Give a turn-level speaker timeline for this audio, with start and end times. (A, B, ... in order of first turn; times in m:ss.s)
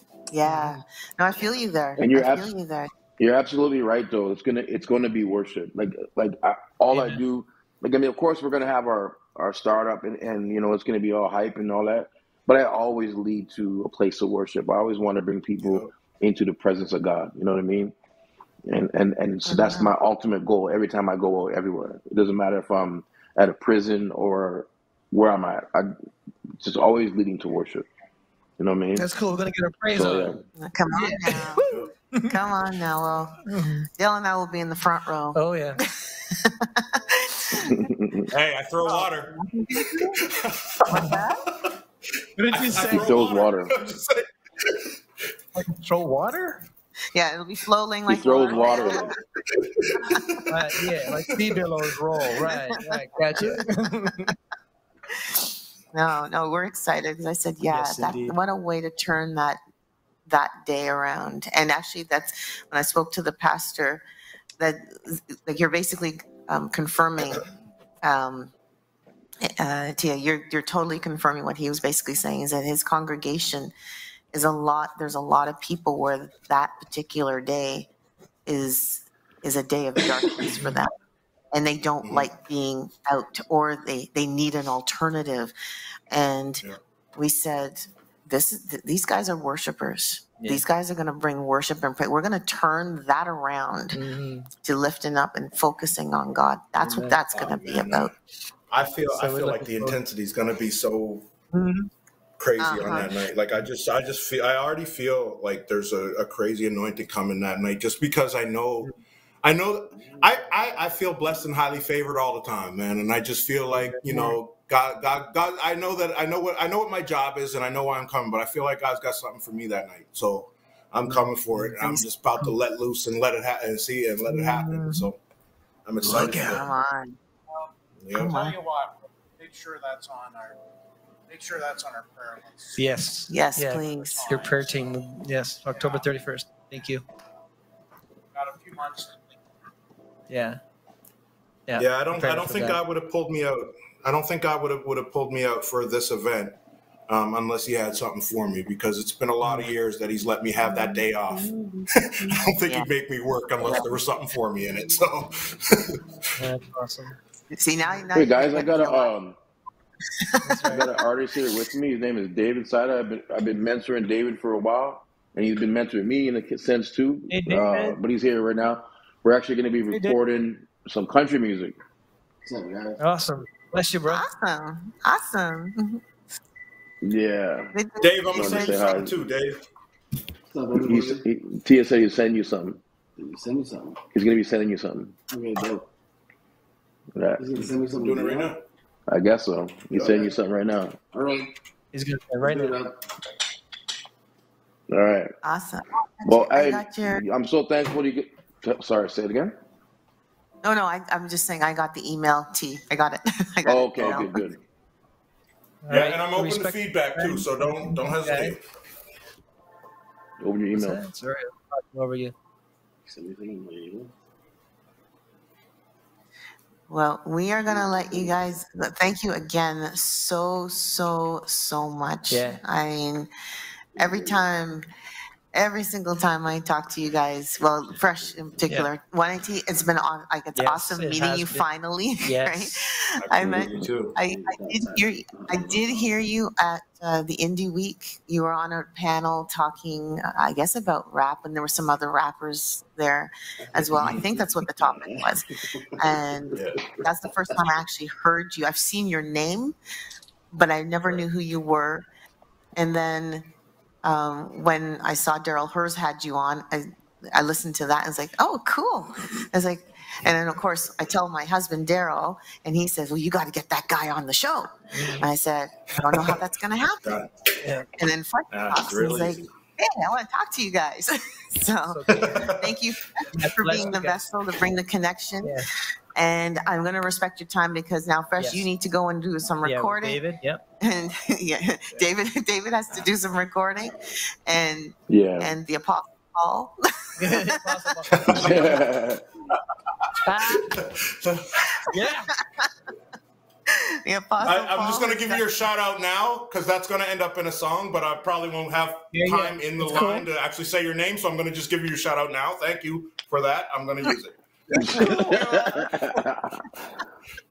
0:00.3-0:02.9 A
0:00.4-0:00.8 B
0:02.0-0:02.5 C
0:03.2-0:17.9 C
0:06.9-0:07.2 B
0:15.6-0:15.9 D
0:18.6-0:25.9 C
0:19.4-0:19.9 A
0:26.6-0:27.9 C
0:28.6-0:29.0 C
0:29.0-0:30.4 B
0:29.9-0:30.4 C
0:30.6-0:31.7 A
0:30.9-0:32.3 B
0:32.3-0:33.4 A
0:33.4-0:33.9 B
0:34.0-0:37.8 A
0:35.3-0:35.8 B
0:37.6-0:38.3 C
0:38.3-0:39.4 D
0:38.8-0:41.4 A
0:40.2-0:41.7 D
0:42.4-0:43.1 B
0:42.5-0:44.9 D
0:42.8-0:43.7 C
0:45.5-0:46.6 B
0:47.1-0:49.2 A
0:48.1-0:49.1 C
0:49.6-0:50.4 D
0:50.0-0:50.3 A
0:50.5-0:54.3 B
0:52.5-0:52.8 A
0:53.3-0:53.7 A
0:55.1-0:59.6 A
0:57.7-0:58.4 B
1:00.3-1:04.0 A
1:04.6-1:07.4 A
1:08.0-1:08.5 A
1:09.4-1:13.7 A
1:14.3-1:17.9 A
1:18.4-1:20.9 A
1:20.4-1:20.7 B
1:21.5-1:25.5 A
1:22.0-1:22.3 D
1:26.1-1:26.6 A
1:27.2-1:34.0 A
1:30.4-1:30.6 B
1:33.9-1:34.5 B
1:34.6-1:38.1 A
1:36.8-1:37.2 B
1:37.3-1:38.1 D
1:38.7-1:41.3 D
1:39.1-1:40.0 B
1:41.5-1:41.8 B
1:42.4-1:48.9 D
1:42.6-1:43.2 A
1:49.4-2:05.2 D
1:53.7-1:54.4 B
2:01.1-2:02.5 B
2:04.3-2:05.1 B
2:05.8-2:06.7 D
2:06.1-2:06.6 B
2:06.3-2:07.2 A
2:08.0-2:08.4 D
2:08.1-2:08.6 A
2:08.3-2:10.6 E
2:11.3-2:12.8 E
2:12.8-2:17.0 B
2:13.3-2:14.3 A
2:13.7-2:15.0 E
2:15.7-2:16.1 E
2:18.3-2:19.4 E
2:20.3-2:20.6 B
2:21.7-2:22.8 B
2:21.8-2:26.6 D
2:27.1-2:36.2 D
2:29.4-2:29.7 B
2:32.6-2:32.9 A
2:36.4-2:37.2 B
2:37.5-2:39.1 A
2:38.1-2:39.4 C
2:40.2-2:40.6 A
2:40.4-2:40.9 B
2:40.6-2:51.8 C
2:47.3-2:48.0 B
2:49.9-2:50.2 B
2:52.4-2:53.0 F
2:53.0-2:54.2 B
2:54.1-2:56.0 A
2:57.0-2:57.7 C
2:57.7-2:58.9 A
2:58.0-2:59.6 D
2:58.3-2:59.2 C
3:00.5-3:01.2 F
3:00.8-3:02.8 C
3:03.2-3:04.0 F
3:04.1-3:05.2 C
3:05.3-3:05.9 F
3:07.2-3:07.4 C
3:07.4-3:08.5 F
3:07.9-3:08.6 D
3:09.1-3:11.0 C
3:10.0-3:10.3 F
3:11.1-3:11.5 F
3:11.9-3:12.8 B
3:12.4-3:12.9 F
3:14.9-3:15.3 C
3:15.4-3:17.2 A
3:16.2-3:19.6 C
3:20.6-3:24.4 A
3:23.6-3:24.6 C
3:25.8-3:28.6 B
3:25.9-3:28.6 D
3:30.4-3:31.0 C
3:30.7-3:32.3 B
3:33.1-3:34.1 F
3:36.9-3:43.3 A
3:37.8-3:38.2 C
3:42.3-3:42.6 B
3:44.0-3:44.9 A
3:44.0-3:44.4 F
3:45.5-4:09.7 A
3:50.5-3:51.7 B
3:52.2-3:52.8 B
3:53.2-3:54.2 D
3:54.2-3:56.2 F
4:03.8-4:05.3 F
4:03.9-4:04.3 D
4:06.8-4:07.0 F
4:10.5-4:12.0 A
4:12.8-4:13.5 A
4:14.0-4:27.2 A
4:24.9-4:25.3 B
4:26.1-4:26.4 D
4:27.0-4:27.3 D
4:27.6-4:27.9 B
4:28.0-4:35.6 A
4:28.5-4:29.5 D
4:31.9-4:32.5 B
4:32.2-4:32.8 D
4:33.3-4:34.3 B
4:35.4-4:35.7 B
4:36.1-4:40.2 A
4:38.4-4:38.6 B
4:39.6-4:40.6 B
4:40.8-4:47.6 A
4:45.1-4:45.5 C
4:47.2-4:48.8 B
4:48.2-4:48.6 D
4:48.3-4:49.2 C
4:50.0-4:51.7 D
4:50.2-4:50.7 B
4:51.9-4:52.3 B
4:52.3-4:52.7 A
4:53.7-4:55.4 A
4:54.4-5:05.2 D
4:59.1-5:00.2 B
5:04.7-5:05.8 A
5:04.8-5:06.7 C
5:04.9-5:05.2 B